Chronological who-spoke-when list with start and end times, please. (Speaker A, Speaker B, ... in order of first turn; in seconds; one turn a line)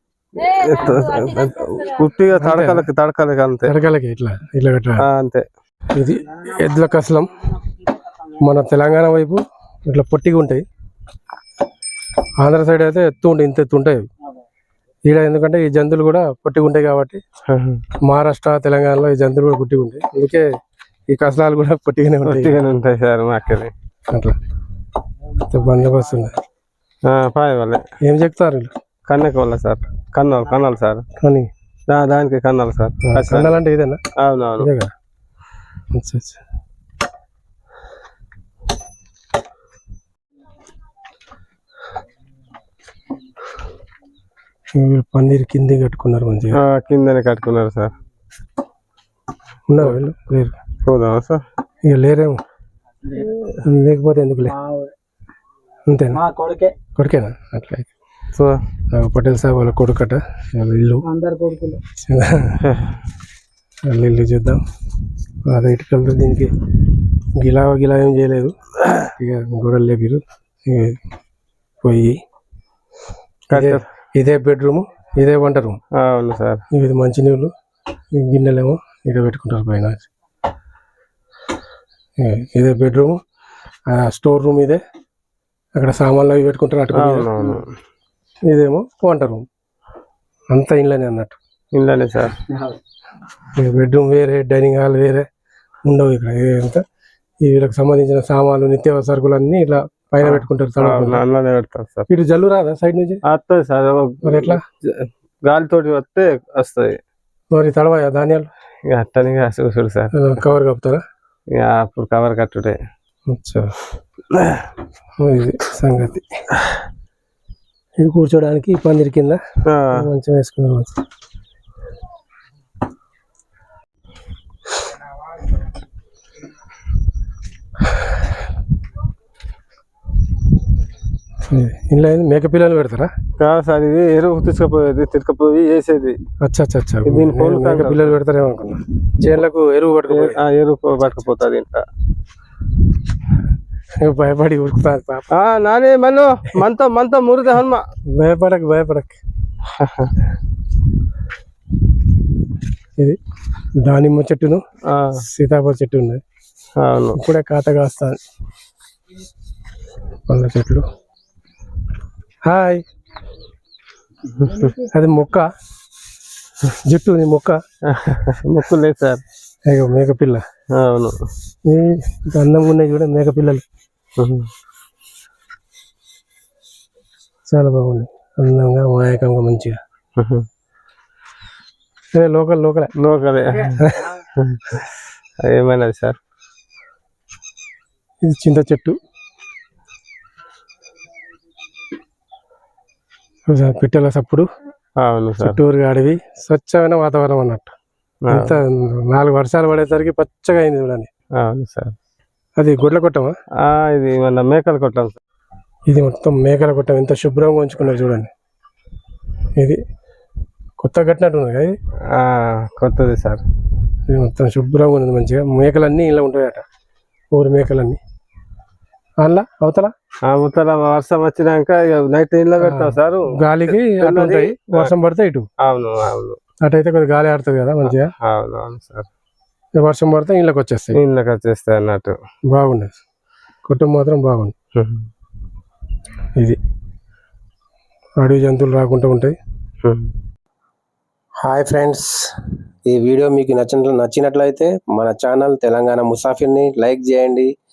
Speaker A: 0.4-3.7
Speaker B: 2.3-2.9
Speaker B: 3.6-5.1
Speaker A: 5.0-5.5
Speaker B: 5.9-7.4
Speaker B: 8.4-10.6
Speaker B: 12.4-14.1
Speaker B: 15.1-17.2
Speaker A: 17.5-17.8
Speaker B: 18.1-20.4
Speaker B: 21.1-22.6
Speaker A: 22.2-23.7
Speaker B: 24.1-24.4
Speaker B: 25.4-26.4
Speaker A: 27.1-27.8
Speaker B: 28.1-28.7
Speaker A: 29.1-31.0
Speaker B: 31.2-31.5
Speaker A: 31.9-33.6
Speaker B: 33.0-34.0
Speaker A: 34.2-34.7
Speaker B: 34.6-34.9
Speaker B: 35.9-36.4
Speaker B: 44.7-46.6
Speaker A: 46.5-47.9
Speaker B: 49.7-50.6
Speaker A: 50.9-51.4
Speaker B: 51.8-52.4
Speaker B: 53.6-54.5
Speaker C: 54.5-54.9
Speaker B: 55.9-56.2
Speaker C: 56.1-56.8
Speaker B: 57.0-57.9
Speaker B: 58.9-61.0
Speaker C: 61.0-61.8
Speaker B: 62.0-62.6
Speaker A: 62.6-62.9
Speaker B: 63.9-64.6
Speaker B: 65.5-66.5
Speaker B: 67.3-68.5
Speaker B: 69.2-71.0
Speaker B: 71.8-72.2
Speaker A: 73.5-73.8
Speaker B: 73.5-75.8
Speaker A: 76.0-76.6
Speaker B: 76.7-77.5
Speaker B: 78.1-80.1
Speaker B: 82.2-83.2
Speaker B: 83.9-84.8
Speaker B: 85.8-87.3
Speaker A: 86.9-87.7
Speaker B: 88.5-89.5
Speaker B: 90.5-91.4
Speaker A: 91.7-92.4
Speaker B: 93.5-95.3
Speaker B: 95.8-96.8
Speaker B: 97.4-101.2
Speaker A: 100.2-102.1
Speaker B: 102.1-103.2
Speaker A: 103.3-107.0
Speaker B: 104.2-104.6
Speaker B: 107.5-108.5
Speaker A: 108.9-110.1
Speaker B: 110.1-111.0
Speaker A: 111.5-112.8
Speaker B: 113.3-113.8
Speaker A: 114.3-114.7
Speaker B: 115.2-116.2
Speaker B: 118.0-119.4
Speaker B: 119.9-120.9
Speaker B: 131.5-133.1
Speaker A: 133.4-136.2
Speaker B: 136.4-140.4
Speaker A: 137.1-138.2
Speaker A: 140.1-141.8
Speaker B: 144.0-145.3
Speaker A: 145.3-147.8
Speaker B: 148.1-149.2
Speaker A: 149.8-150.1
Speaker B: 153.8-154.6
Speaker A: 154.9-155.1
Speaker B: 155.2-156.2
Speaker A: 156.8-157.2
Speaker B: 157.1-158.2
Speaker B: 160.3-160.8
Speaker B: 162.5-162.8
Speaker B: 164.9-165.5
Speaker B: 166.7-167.6
Speaker A: 167.9-169.2
Speaker B: 169.7-170.4
Speaker A: 170.7-171.2
Speaker B: 171.6-173.6
Speaker A: 174.2-174.5
Speaker B: 177.5-179.8
Speaker A: 180.2-180.5
Speaker B: 182.1-182.9
Speaker A: 183.0-186.2
Speaker B: 183.8-184.1
Speaker B: 188.2-189.0
Speaker B: 193.5-194.5
Speaker A: 195.0-195.6
Speaker B: 195.4-197.7
Speaker A: 198.3-198.6
Speaker B: 198.3-201.1
Speaker A: 201.4-201.9
Speaker B: 202.6-203.4
Speaker A: 203.6-205.2
Speaker B: 205.9-208.3
Speaker B: 210.8-211.8
Speaker A: 212.1-213.4
Speaker B: 214.1-216.6
Speaker B: 217.3-218.0
Speaker B: 219.2-219.9
Speaker A: 220.3-224.9
Speaker B: 222.6-225.5
Speaker A: 225.6-226.4
Speaker B: 226.6-228.1
Speaker A: 227.8-229.1
Speaker B: 229.8-231.0
Speaker A: 230.9-232.2
Speaker B: 232.5-233.0
Speaker B: 233.6-234.5
Speaker A: 234.8-235.1
Speaker B: 238.2-239.4
Speaker A: 239.8-240.1
Speaker B: 241.4-242.3
Speaker B: 242.9-247.5